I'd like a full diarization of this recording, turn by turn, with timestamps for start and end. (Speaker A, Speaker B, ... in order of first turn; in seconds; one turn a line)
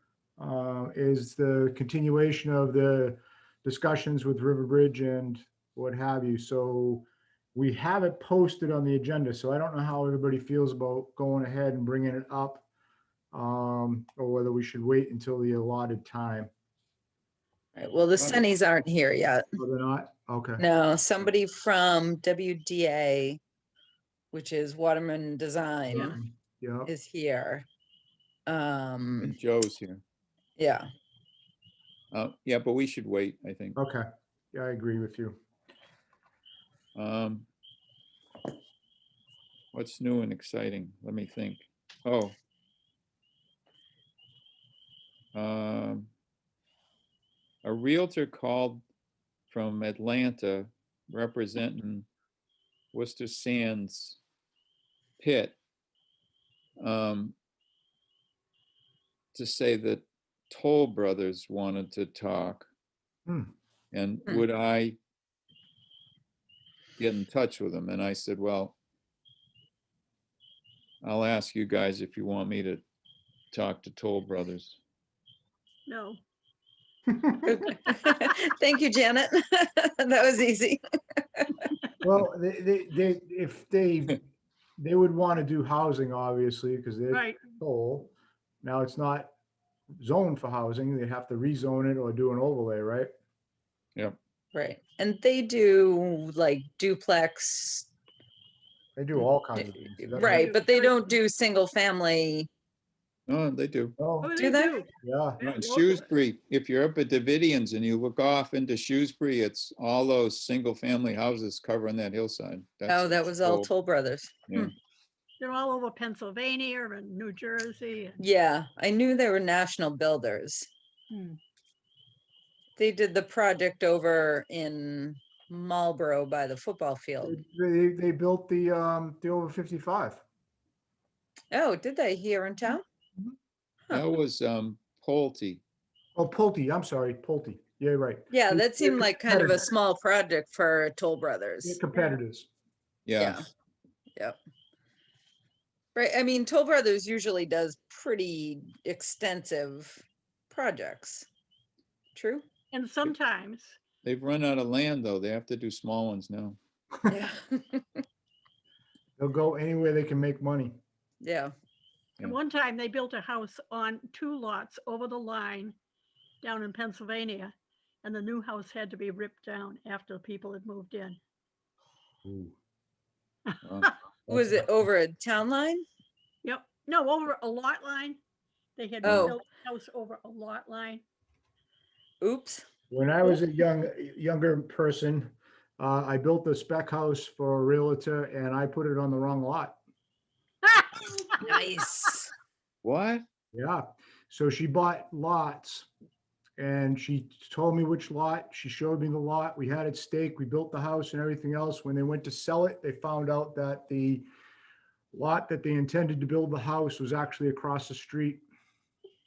Speaker A: 0.4-12.7
Speaker A: 13.3-16.5
Speaker B: 17.8-19.5
Speaker A: 19.6-20.6
Speaker B: 20.6-23.4
Speaker B: 24.3-26.2
Speaker A: 25.9-26.9
Speaker B: 26.9-27.6
Speaker B: 28.5-29.4
Speaker C: 29.2-30.0
Speaker B: 30.6-30.9
Speaker C: 32.1-33.8
Speaker A: 33.8-35.4
Speaker C: 37.0-37.5
Speaker C: 39.7-42.4
Speaker C: 45.3-46.1
Speaker C: 47.6-48.9
Speaker C: 49.5-52.1
Speaker C: 52.9-54.2
Speaker C: 55.2-55.6
Speaker C: 56.8-57.4
Speaker C: 59.3-62.7
Speaker A: 63.3-63.5
Speaker C: 63.9-65.0
Speaker C: 67.0-68.8
Speaker C: 71.0-72.8
Speaker C: 73.5-74.8
Speaker D: 75.9-76.2
Speaker A: 77.2-77.5
Speaker B: 77.5-81.7
Speaker A: 82.0-84.2
Speaker A: 84.8-88.1
Speaker D: 87.1-87.4
Speaker A: 88.6-89.3
Speaker A: 90.0-93.1
Speaker B: 94.5-97.9
Speaker A: 99.0-100.5
Speaker B: 99.6-102.5
Speaker D: 100.2-101.1
Speaker C: 103.3-104.0
Speaker A: 104.0-104.4
Speaker D: 104.2-106.0
Speaker B: 104.4-104.8
Speaker A: 105.0-105.4
Speaker C: 105.4-113.7
Speaker B: 112.9-114.7
Speaker D: 115.4-118.2
Speaker B: 118.2-120.7
Speaker D: 121.1-121.4
Speaker B: 122.8-127.4
Speaker A: 127.2-130.2
Speaker B: 131.5-132.8
Speaker C: 133.9-135.6
Speaker A: 136.2-139.7
Speaker B: 138.3-141.8
Speaker A: 141.6-142.5
Speaker C: 143.1-143.4
Speaker B: 143.2-143.5
Speaker B: 145.9-151.3
Speaker B: 152.2-152.4
Speaker D: 152.7-153.8
Speaker C: 154.0-156.6
Speaker B: 157.1-157.9
Speaker A: 159.2-160.8
Speaker B: 161.2-161.5
Speaker D: 162.2-165.8
Speaker D: 166.4-171.2
Speaker A: 172.2-172.6
Speaker D: 173.5-173.9
Speaker C: 173.6-174.6
Speaker B: 174.3-175.8
Speaker D: 176.4-178.2
Speaker D: 178.8-181.0
Speaker C: 179.0-179.3
Speaker B: 179.1-179.4
Speaker B: 182.2-182.7
Speaker A: 182.9-189.8
Speaker D: 190.7-191.8
Speaker B: 191.4-192.3
Speaker C: 192.8-193.2
Speaker A: 193.5-195.9
Speaker A: 196.6-204.3
Speaker A: 205.1-208.4